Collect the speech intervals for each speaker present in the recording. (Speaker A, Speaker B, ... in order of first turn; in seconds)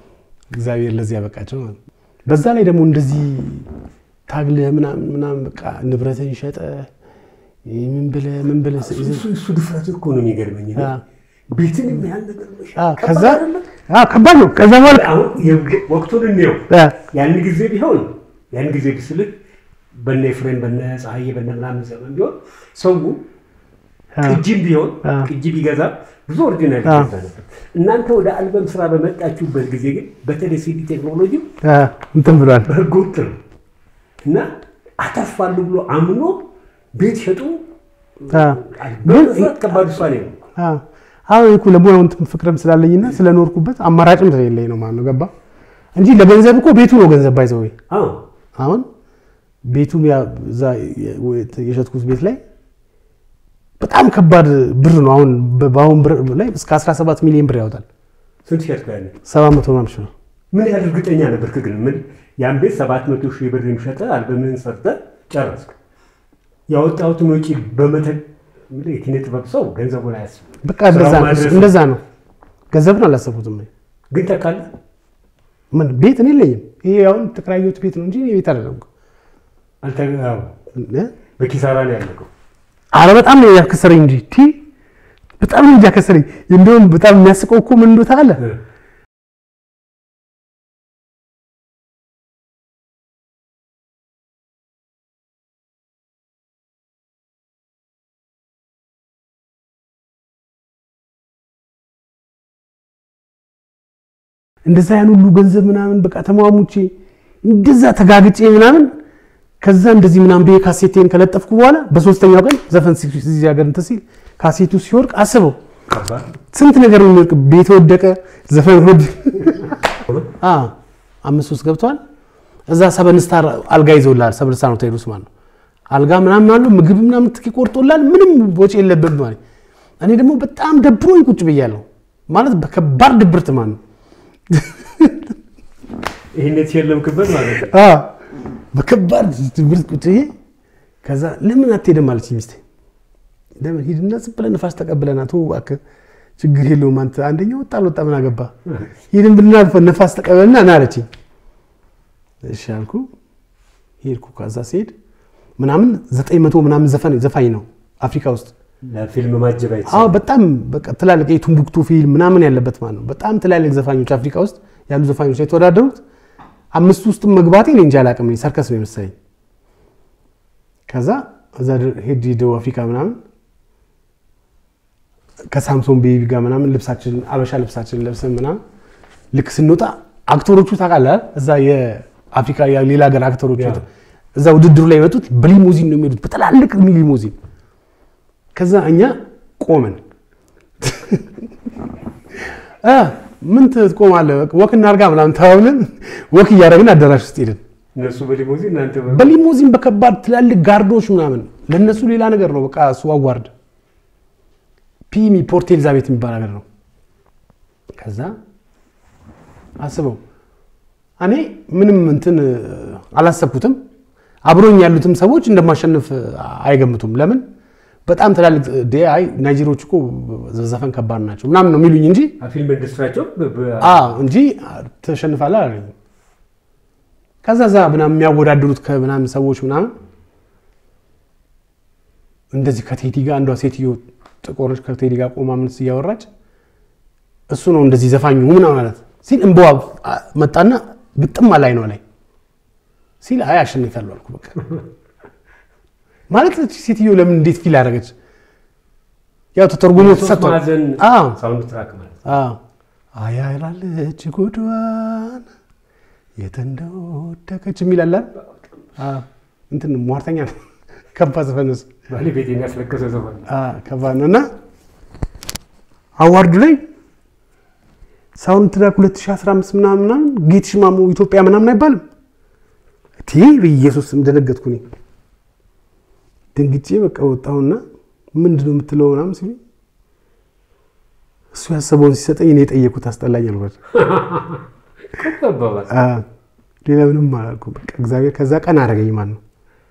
Speaker A: 0.5-3.7, 4.3-6.9, 7.7-9.2, 10.8-11.0, 12.8-15.1, 16.7-17.0, 24.1-24.4, 25.0-25.3, 26.9-27.1, 31.6-32.7, 38.3-39.9, 40.6-45.3, 46.0-47.8, 48.6-48.9, 49.7-52.4, 53.8-57.9, 59.3-60.1, 70.6-72.0, 72.7-73.7, 75.7-78.9, 80.8-81.1, 82.9-84.6, 85.4-88.4, 104.7-106.9, 107.4-108.9, 109.6-115.6, 116.5-119.8, 120.4-122.0, 122.7-125.3, 125.9-129.4, 130.0-133.8, 134.5-135.3, 137.4-140.3, 141.0-142.6, 143.6-145.8, 146.4-148.5, 149.1-151.1, 152.4-153.1, 154.0-154.9, 155.6-158.5, 159.9-166.0, 166.7-169.1, 170.9-173.2, 175.5-178.6, 179.3-183.8, 184.4-187.3, 188.6-190.0, 190.8-191.3, 192.8-197.6, 199.1-203.5, 205.1-206.7, 208.0-208.3, 209.8-210.2, 211.2-213.8, 214.4-217.4, 218.1-222.4, 223.8-225.9, 227.4-229.9, 232.5-236.3, 237.5-242.0, 243.2-244.7, 246.3-248.1, 249.6-251.4, 252.3-252.6, 253.1-255.5, 256.4-258.3, 259.0-260.6, 261.1-261.9, 263.5-264.5, 266.2-266.8, 268.4-272.0, 273.2-274.8, 276.6-277.8, 278.4-279.6, 281.5-283.9, 285.9-286.3, 286.9-289.4
Speaker B: 8.8-10.9, 11.5-13.7, 14.7-19.3, 19.9-23.2, 24.2-31.5, 32.6-33.4, 35.0-36.4, 37.0-37.6, 38.2-40.4, 47.9-48.2, 58.5-59.1, 60.5-65.8, 66.7-71.8, 74.1-74.7, 79.8-80.5, 81.4-82.3, 115.9-116.3, 136.3-137.7, 158.8-160.2, 183.6-183.8, 197.9-199.3, 222.4-224.2, 249.9-252.2, 262.1-263.5, 283.9-285.9